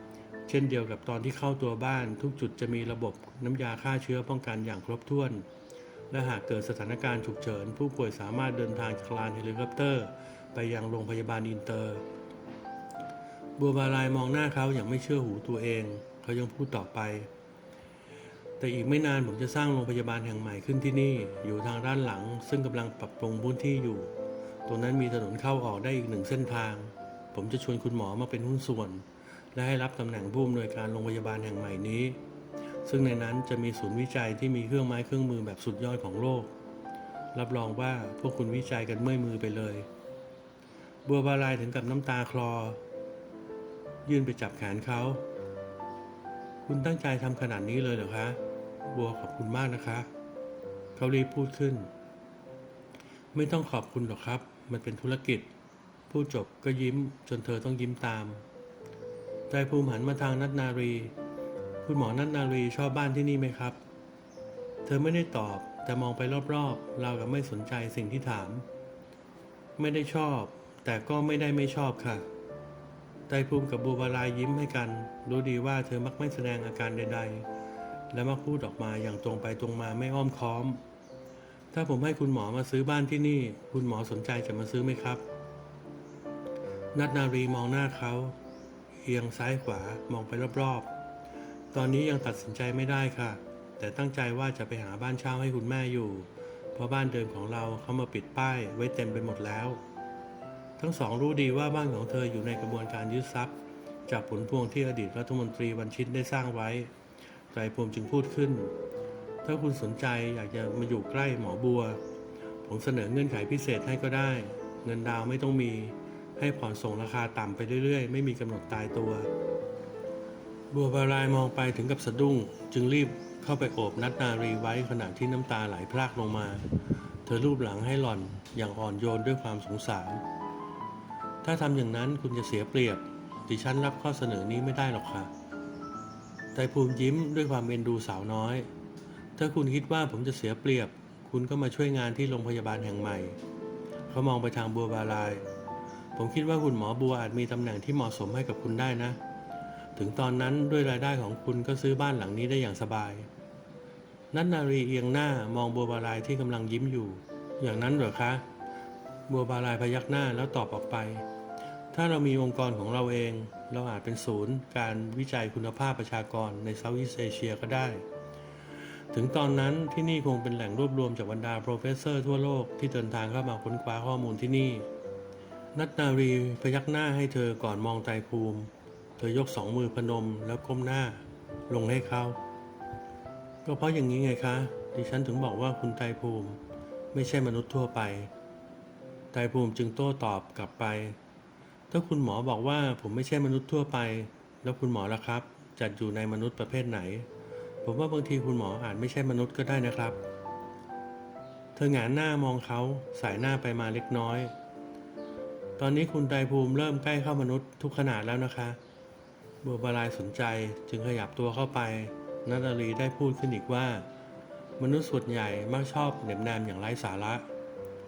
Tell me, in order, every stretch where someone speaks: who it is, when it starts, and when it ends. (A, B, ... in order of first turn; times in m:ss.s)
0:00.5-0:05.5 A
0:06.1-0:12.0 A
0:13.6-0:17.3 A
0:18.6-0:24.1 A
0:24.7-0:32.2 A
0:32.8-0:36.5 A
0:37.3-0:39.9 A
0:41.0-0:42.8 A
0:44.0-0:45.2 A
0:46.7-0:50.1 A
0:51.0-0:51.9 A
0:53.3-0:55.5 A
0:56.1-0:58.4 A
0:59.5-1:01.1 A
1:01.8-1:03.8 A
1:04.8-1:08.7 A
1:09.8-1:12.3 A
1:13.3-1:17.5 A
1:18.1-1:20.8 A
1:21.7-1:25.2 A
1:26.9-1:28.4 A
1:29.0-1:30.9 A
1:31.7-1:39.8 A
1:40.8-1:43.6 A
1:44.1-1:46.9 A
1:47.5-1:48.7 A
1:49.4-1:52.0 A
1:52.6-1:59.3 A
2:00.7-2:06.7 A
2:07.2-2:10.2 A
2:11.4-2:15.3 A
2:16.5-2:18.7 A
2:19.4-2:23.4 A
2:24.1-2:25.4 A
2:26.2-2:29.2 A
2:30.0-2:33.3 A
2:34.3-2:38.4 A
2:39.3-2:41.2 A
2:41.9-2:48.0 A
2:49.1-2:54.9 A
2:55.7-3:02.4 A
3:03.6-3:06.6 A
3:07.1-3:08.3 A
3:09.3-3:11.2 A
3:11.9-3:17.3 A
3:17.8-3:20.2 A
3:21.8-3:24.5 A
3:25.8-3:28.8 A
3:29.6-3:34.1 A
3:34.8-3:37.5 A